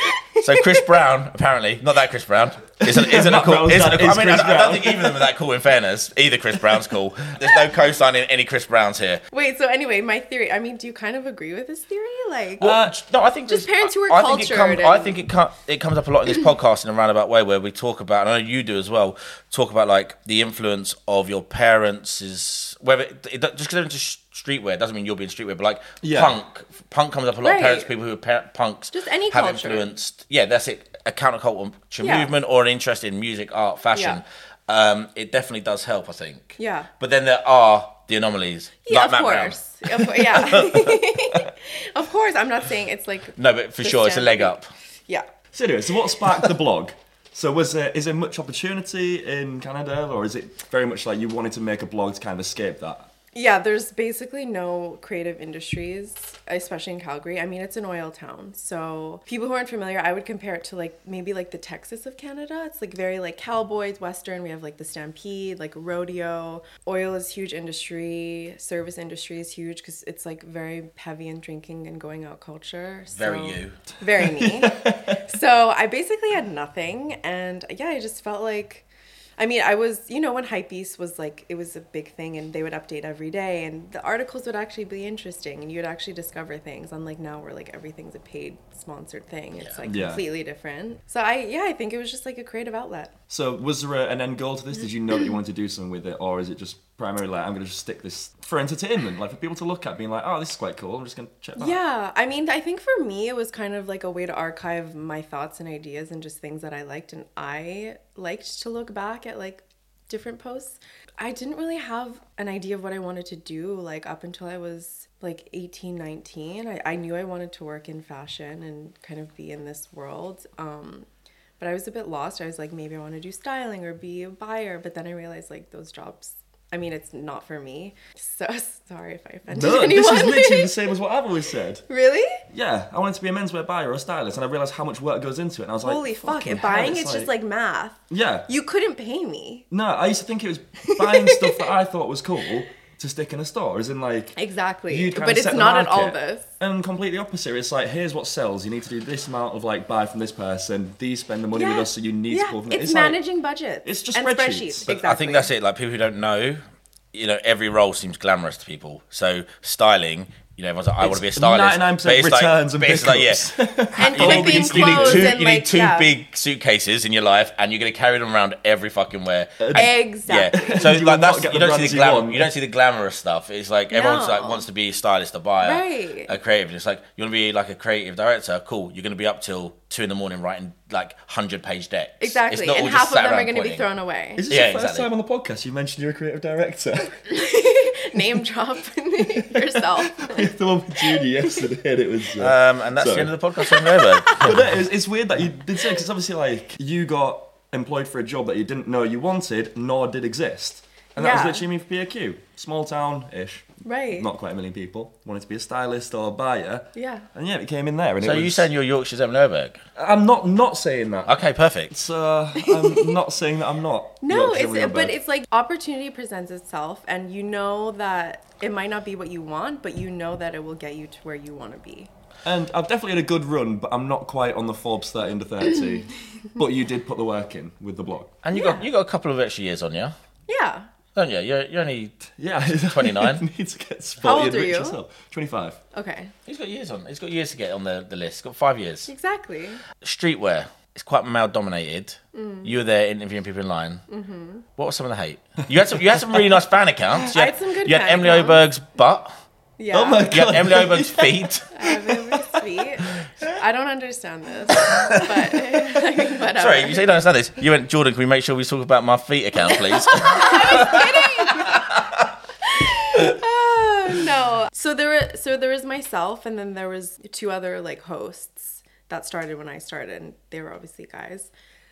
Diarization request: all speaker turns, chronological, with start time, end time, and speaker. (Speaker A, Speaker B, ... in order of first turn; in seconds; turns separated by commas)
Speaker A: 0.3-0.9, Speaker B: 0.4-9.2, Speaker C: 2.9-5.2, Speaker A: 9.3-12.8, Speaker C: 12.6-12.9, Speaker B: 12.6-39.6, Speaker A: 13.5-15.2, Speaker C: 26.0-26.4, Speaker A: 27.4-27.9, Speaker A: 28.9-29.9, Speaker A: 32.0-32.3, Speaker A: 33.9-34.2, Speaker A: 36.6-36.9, Speaker A: 38.8-45.2, Speaker B: 43.4-44.7, Speaker C: 45.5-53.1, Speaker A: 53.3-78.8, Speaker B: 73.1-73.8, Speaker C: 74.2-75.2, Speaker A: 79.4-93.1, Speaker C: 89.8-90.2, Speaker C: 93.3-101.8, Speaker A: 101.5-121.1, Speaker A: 121.6-130.9, Speaker C: 129.5-131.8, Speaker A: 131.9-132.4, Speaker C: 132.5-137.3, Speaker A: 135.8-139.7, Speaker C: 138.1-138.5, Speaker C: 139.7-144.3, Speaker A: 140.8-141.7, Speaker A: 144.3-146.5, Speaker C: 144.9-153.2, Speaker A: 151.5-155.5, Speaker C: 153.8-154.9, Speaker B: 154.9-156.6, Speaker B: 157.1-183.9, Speaker C: 161.0-165.3, Speaker A: 164.0-166.1, Speaker C: 169.6-172.5, Speaker A: 169.7-170.9, Speaker A: 173.9-174.6, Speaker A: 175.6-176.3, Speaker A: 182.2-184.4, Speaker C: 184.3-187.2, Speaker B: 184.5-185.1, Speaker A: 187.3-191.6, Speaker C: 189.4-193.3, Speaker B: 192.4-194.7, Speaker A: 193.6-194.5, Speaker C: 194.4-208.7, Speaker A: 201.2-201.7, Speaker A: 203.8-204.3, Speaker A: 206.9-207.3, Speaker B: 208.2-209.8, Speaker C: 209.9-211.3, Speaker B: 211.3-211.9, Speaker C: 211.9-215.2, Speaker A: 212.8-213.2, Speaker A: 214.2-222.1, Speaker C: 222.4-228.4, Speaker B: 228.4-230.1, Speaker A: 228.5-228.9, Speaker A: 230.5-230.9, Speaker B: 231.1-233.4, Speaker C: 232.3-235.8, Speaker A: 234.2-235.0, Speaker A: 235.9-236.3, Speaker B: 236.4-239.1, Speaker A: 239.1-239.8, Speaker B: 240.0-244.0, Speaker A: 242.3-242.7, Speaker A: 244.1-244.7, Speaker B: 244.8-249.3, Speaker A: 247.3-248.6, Speaker A: 249.8-250.3, Speaker C: 249.9-252.6, Speaker B: 250.3-251.7, Speaker A: 251.7-257.1, Speaker B: 256.6-262.2, Speaker A: 259.7-261.9, Speaker A: 262.6-271.5